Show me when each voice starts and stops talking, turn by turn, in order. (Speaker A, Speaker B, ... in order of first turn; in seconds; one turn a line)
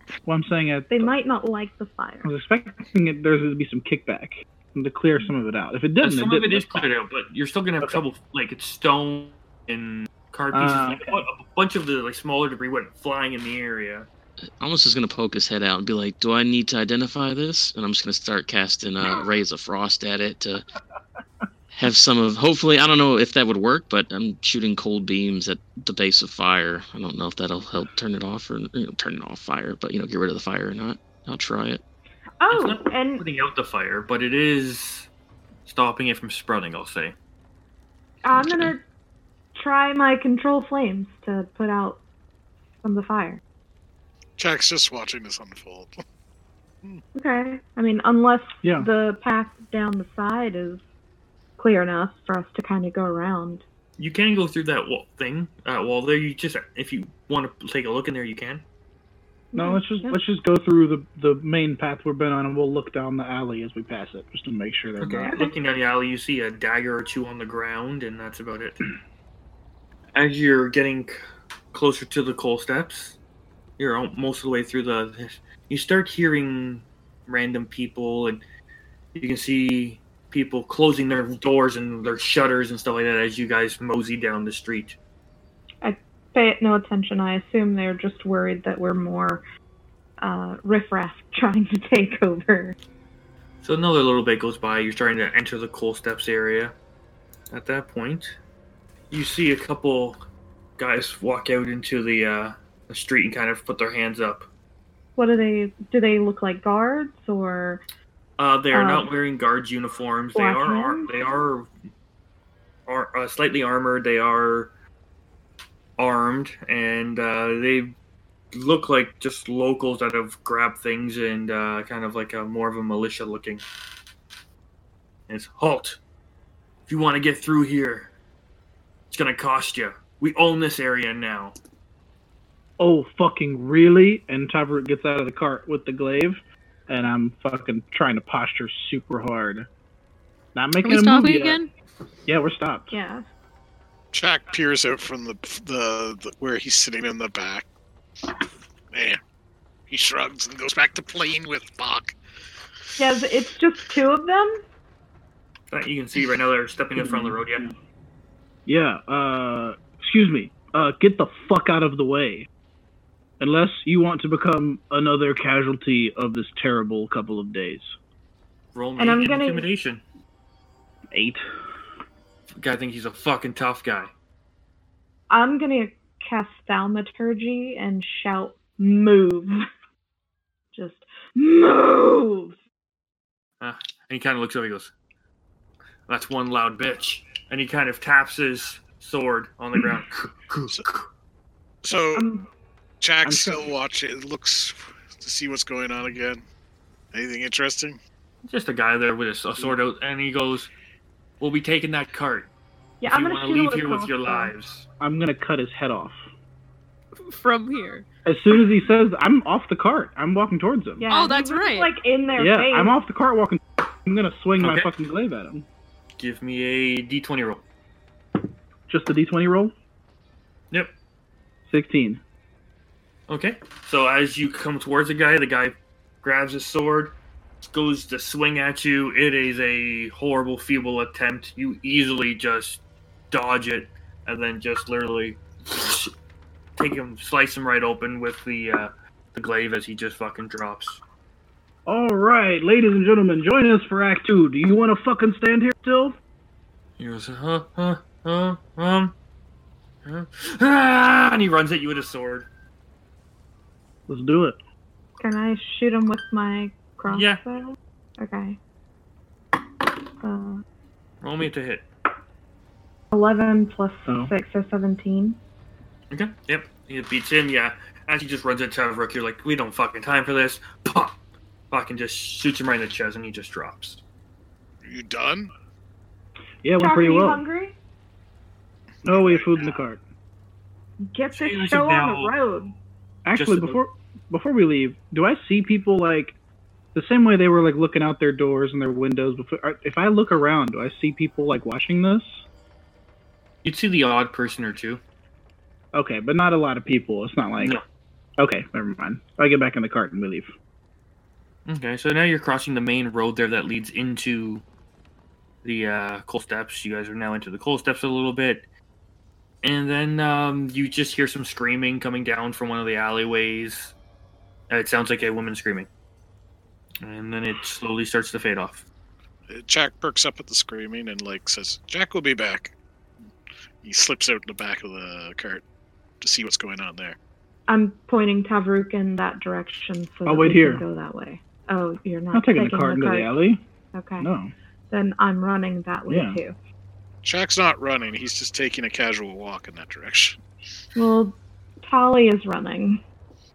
Speaker A: 0.2-1.1
Speaker B: 0.9-2.3
Speaker A: 2.2-6.9
Speaker C: 6.0-14.1
Speaker A: 10.5-11.2
Speaker D: 14.6-20.7
Speaker D: 21.7-31.8
Speaker B: 32.4-33.2
Speaker C: 32.5-35.1
Speaker C: 35.7-37.1
Speaker B: 38.2-38.8
Speaker D: 38.4-38.7
Speaker B: 39.5-42.0
Speaker B: 42.8-43.4
Speaker E: 44.4-46.0
Speaker B: 47.1-50.8
Speaker A: 48.6-48.9
Speaker B: 51.6-53.6
Speaker C: 54.0-58.6
Speaker B: 59.5-60.2
Speaker A: 59.6-65.5
Speaker C: 65.0-68.8
Speaker B: 65.2-65.5
Speaker C: 70.2-71.2
Speaker C: 71.7-73.2
Speaker C: 73.8-78.4
Speaker C: 79.2-85.0
Speaker B: 85.8-89.4
Speaker B: 90.2-92.8
Speaker C: 93.6-96.7
Speaker C: 97.5-98.3
Speaker C: 99.1-100.2
Speaker C: 100.8-104.5
Speaker B: 105.2-107.8
Speaker C: 108.4-111.7
Speaker B: 108.7-109.1
Speaker B: 110.3-111.1
Speaker C: 112.9-114.7
Speaker C: 116.0-118.0
Speaker C: 118.5-123.6
Speaker C: 125.3-126.0
Speaker C: 126.9-128.1
Speaker C: 129.1-131.6
Speaker A: 132.8-139.7
Speaker A: 140.6-141.6
Speaker F: 140.8-141.7
Speaker A: 142.3-142.9
Speaker B: 142.9-143.2
Speaker E: 144.1-147.7
Speaker E: 148.9-149.2
Speaker E: 149.9-152.2
Speaker B: 153.0-154.6
Speaker C: 155.7-157.7
Speaker A: 157.0-157.4
Speaker A: 158.7-162.5
Speaker A: 163.4-167.9
Speaker C: 168.7-170.0
Speaker B: 169.0-169.7
Speaker A: 171.1-171.4
Speaker C: 172.6-174.1
Speaker B: 175.3-179.7
Speaker B: 180.7-182.6
Speaker C: 183.6-184.9
Speaker C: 186.1-191.1
Speaker E: 191.8-192.3
Speaker B: 192.1-192.5
Speaker E: 193.0-196.4
Speaker A: 193.2-193.6
Speaker E: 197.1-198.0
Speaker C: 198.4-200.7
Speaker C: 201.4-202.5
Speaker B: 203.0-204.5
Speaker C: 203.1-204.9
Speaker A: 205.0-206.2
Speaker F: 207.2-208.1
Speaker A: 208.2-211.1
Speaker B: 211.0-212.9
Speaker F: 211.1-211.9
Speaker A: 212.4-215.7
Speaker C: 214.6-214.9
Speaker C: 216.2-217.6
Speaker A: 218.9-219.7
Speaker A: 221.7-222.2
Speaker C: 223.3-236.1
Speaker C: 236.8-241.0
Speaker A: 241.9-246.2
Speaker C: 247.0-249.2
Speaker C: 250.1-252.5
Speaker A: 254.1-254.6
Speaker B: 255.2-258.6
Speaker C: 257.1-257.4
Speaker B: 260.2-260.6
Speaker C: 261.2-261.9
Speaker B: 263.1-265.4
Speaker A: 264.1-264.3
Speaker C: 266.1-271.2
Speaker C: 271.7-274.0
Speaker E: 274.8-275.5
Speaker A: 276.6-277.4
Speaker B: 276.8-277.8
Speaker A: 279.1-280.0
Speaker E: 279.1-279.7
Speaker B: 281.1-282.7
Speaker C: 281.4-282.3
Speaker A: 283.2-286.4
Speaker C: 283.4-283.8
Speaker A: 286.9-292.4
Speaker C: 293.6-295.0
Speaker A: 295.9-297.8
Speaker A: 298.4-300.5
Speaker C: 301.7-304.6
Speaker C: 305.6-308.6
Speaker C: 309.6-313.9
Speaker C: 314.7-315.9
Speaker C: 317.0-318.9
Speaker E: 319.5-322.7
Speaker E: 323.8-325.6
Speaker E: 326.2-327.2
Speaker B: 327.7-333.3
Speaker A: 330.3-330.9
Speaker A: 332.3-333.6
Speaker B: 333.9-334.3
Speaker A: 334.2-334.5
Speaker B: 334.9-336.6
Speaker A: 336.1-336.4
Speaker E: 337.2-340.4
Speaker B: 340.9-343.0